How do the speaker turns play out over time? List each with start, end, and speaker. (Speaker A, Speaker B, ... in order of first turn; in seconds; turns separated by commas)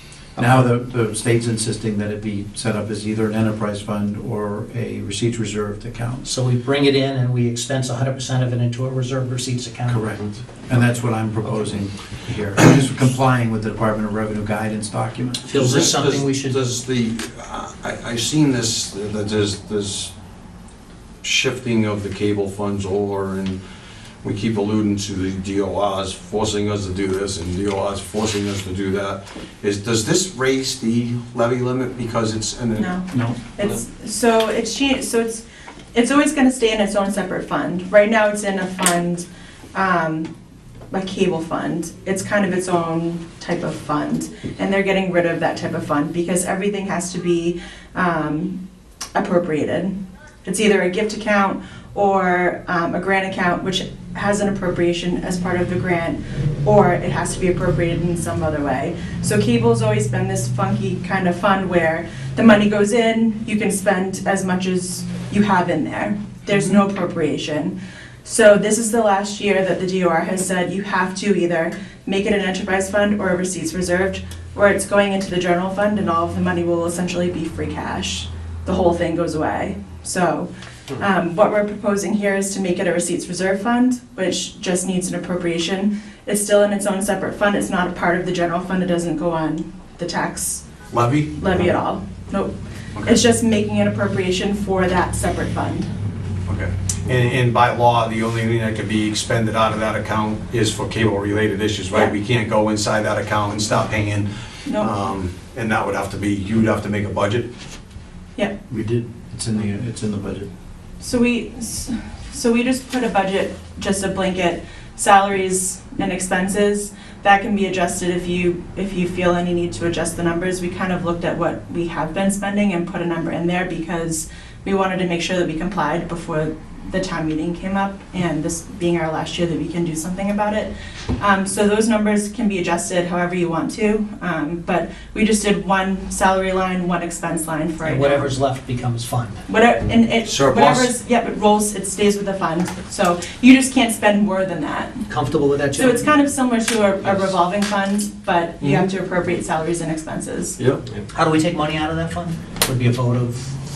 Speaker A: 0.4-0.7, Speaker B: 0.4-6.3, Speaker A: 6.2-11.8, Speaker B: 9.9-15.4, Speaker A: 12.6-12.9, Speaker A: 15.4-16.6, Speaker C: 15.5-20.1, Speaker C: 21.2-23.6, Speaker C: 24.2-32.9, Speaker D: 32.8-40.3, Speaker B: 33.1-33.4, Speaker D: 40.9-48.6, Speaker D: 49.1-49.9, Speaker D: 50.5-90.7, Speaker C: 90.9-91.7, Speaker D: 91.3-92.5, Speaker C: 93.0-93.2, Speaker D: 93.0-95.9, Speaker C: 96.5-107.5, Speaker D: 104.7-104.9, Speaker B: 108.7-110.5, Speaker D: 111.0-138.3, Speaker A: 137.8-139.4, Speaker D: 139.5-145.1, Speaker A: 140.2-140.9, Speaker A: 145.1-146.1, Speaker D: 145.8-150.6, Speaker C: 148.6-148.9, Speaker A: 151.1-153.5